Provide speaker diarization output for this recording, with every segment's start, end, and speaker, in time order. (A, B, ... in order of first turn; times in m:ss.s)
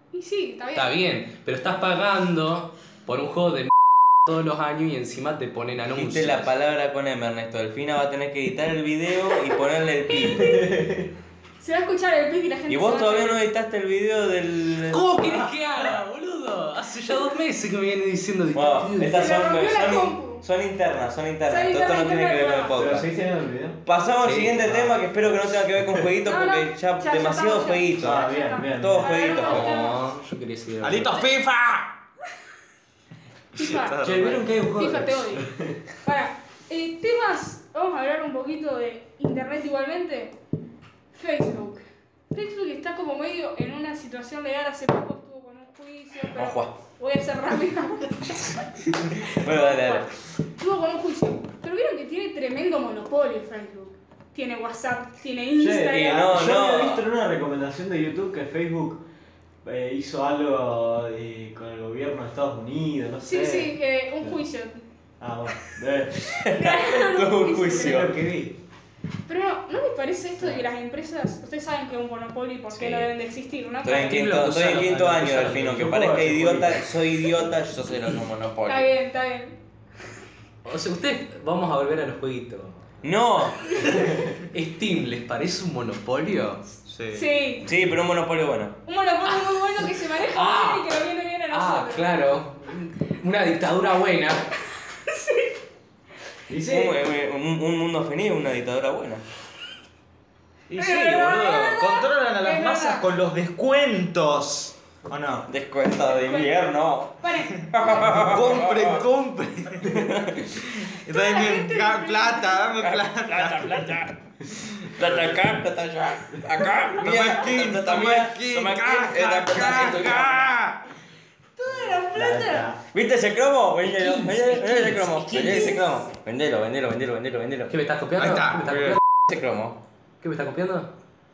0:00.1-0:01.0 A
0:00.8-0:03.7 B
0:04.2-0:06.5 B
0:05.9-0:10.6 C
0:10.1-0:10.8 A
0:10.4-0:11.1 D
0:11.6-0:13.4 A
0:12.7-0:15.5 C
0:14.8-0:19.3 B
0:18.5-0:23.1 C
0:19.0-0:20.4 A
0:21.5-0:22.8 A
0:22.8-0:23.8 D
0:23.8-0:29.9 C
0:24.3-0:24.5 B
0:24.4-0:25.0 D
0:25.8-0:26.1 D
0:26.2-0:30.1 A
0:28.0-0:29.4 D
0:29.4-0:31.2 B
0:30.8-0:32.0 E
0:33.6-0:35.5 A
0:33.6-0:34.5 E
0:34.0-0:35.8 D
0:36.0-0:40.4 A
0:41.2-0:56.4 A
0:46.3-0:46.7 C
0:49.2-0:50.1 C
0:55.6-0:59.0 D
0:55.9-0:57.1 C
0:59.6-1:04.4 D
1:03.2-1:04.8 A
1:05.2-1:06.2 D
1:06.2-1:08.1 C
1:06.4-1:08.1 A
1:07.7-1:08.6 D
1:09.3-1:14.5 A
1:12.7-1:13.1 C
1:13.8-1:18.9 C
1:14.0-1:15.8 B
1:14.9-1:17.0 D
1:18.7-1:19.6 A
1:20.6-1:22.8 B
1:23.0-1:23.8 C
1:23.7-1:24.1 A
1:23.7-1:26.7 B
1:26.9-1:27.4 E
1:27.1-1:27.7 A
1:27.6-1:28.8 C
1:28.8-1:32.1 A
1:29.8-1:30.9 B
1:31.5-1:34.5 B
1:34.9-1:35.6 A
1:36.5-1:37.0 D
1:36.7-1:39.2 C
1:40.7-1:45.5 E
1:40.7-1:43.1 A
1:45.5-1:49.0 C
1:46.0-1:46.6 A
1:47.2-1:48.3 A
1:48.0-1:50.1 E
1:50.0-1:50.6 C
1:50.8-1:54.0 E
1:51.1-1:52.7 A
1:52.8-1:54.2 C
1:54.7-2:00.5 C
1:57.0-2:00.8 E
2:01.6-2:02.7 A
2:01.7-2:02.8 D
2:02.9-2:07.8 C
2:03.8-2:05.8 B
2:05.5-2:05.8 A
2:07.7-2:09.0 B
2:08.2-2:09.0 E
2:09.3-2:09.8 C
2:10.2-2:10.9 B